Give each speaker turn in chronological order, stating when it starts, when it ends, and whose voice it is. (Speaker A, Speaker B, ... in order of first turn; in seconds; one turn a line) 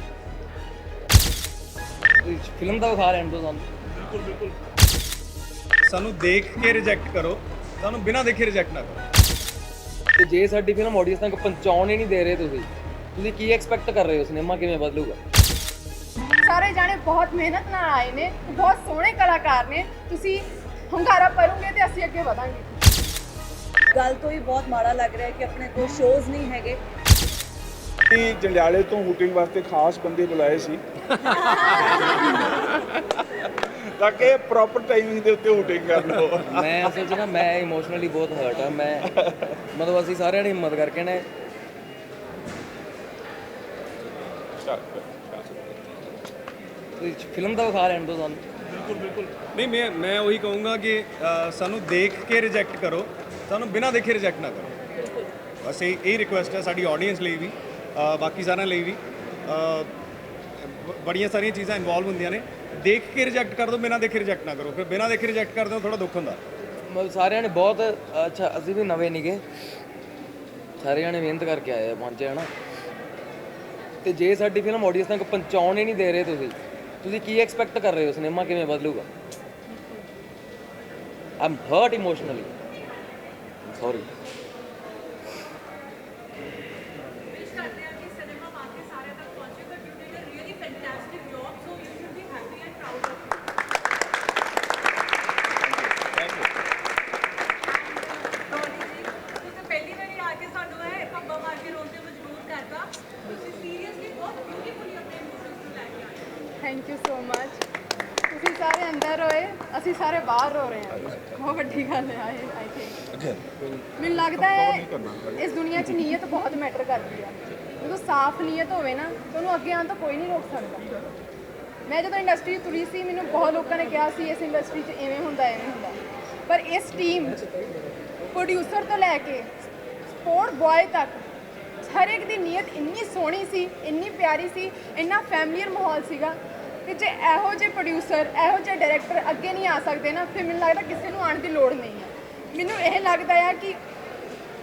Speaker A: 2.2-3.7
Speaker B: 5.9-9.0
Speaker A: 10.2-15.2
Speaker C: 16.4-22.8
Speaker D: 23.9-26.8
Speaker E: 28.1-32.7
Speaker E: 34.0-36.8
Speaker A: 36.5-39.1
Speaker A: 39.7-41.2
Speaker E: 44.6-45.9
Speaker A: 47.0-48.4
Speaker B: 49.5-54.7
Speaker B: 55.6-59.9
Speaker B: 60.6-66.4
Speaker A: 66.8-69.4
Speaker A: 70.8-72.5
Speaker A: 74.0-79.1
Speaker A: 81.4-82.5
Speaker A: 83.7-84.1
Speaker F: 87.3-93.4
Speaker E: 96.0-96.5
Speaker F: 97.6-106.2
Speaker C: 106.6-107.6
Speaker C: 108.3-113.0
Speaker C: 114.0-120.9
Speaker C: 121.9-126.0
Speaker C: 126.5-127.5
Speaker C: 128.3-129.5
Speaker C: 130.2-131.2
Speaker C: 131.8-143.8